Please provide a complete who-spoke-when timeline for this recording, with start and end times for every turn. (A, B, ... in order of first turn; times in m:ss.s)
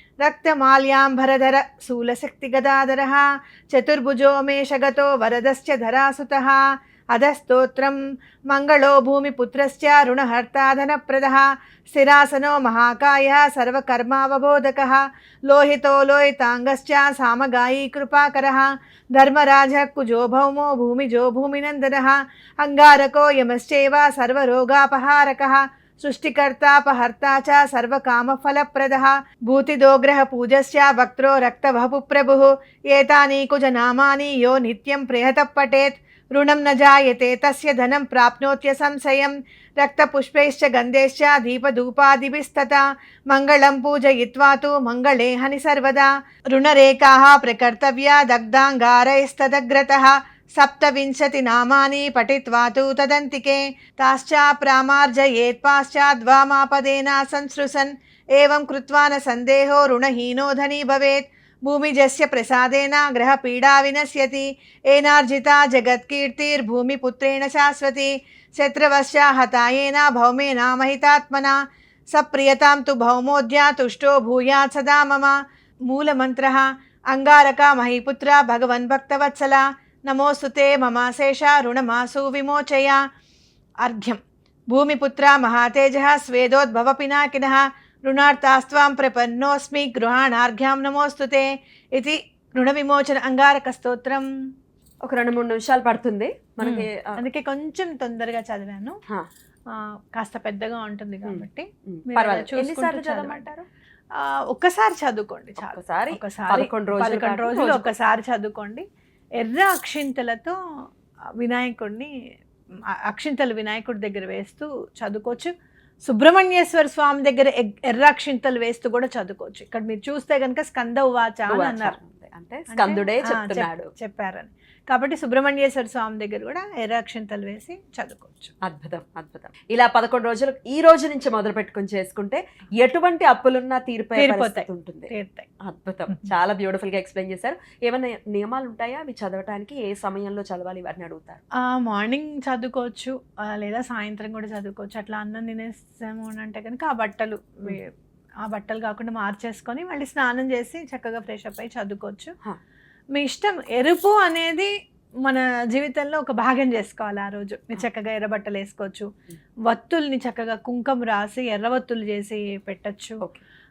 0:00.2-1:11.6 A
1:12.1-1:23.0 A
1:23.8-1:24.2 A
1:24.7-1:34.3 A
1:35.0-1:37.2 B
1:36.6-1:39.0 A
1:39.7-1:43.5 A
1:41.2-1:43.6 B
1:44.1-1:48.8 A
1:45.6-1:47.9 B
1:49.4-1:50.6 A
1:51.4-1:52.1 A
1:52.9-1:55.5 A
1:56.0-2:02.0 A
2:01.5-2:03.9 B
2:02.7-2:08.5 A
2:08.6-2:15.1 B
2:14.2-2:15.5 A
2:15.6-2:21.4 B
2:21.6-2:27.9 A
2:28.4-2:32.3 A
2:33.1-2:34.7 A
2:35.2-2:39.1 A
2:39.7-2:43.2 A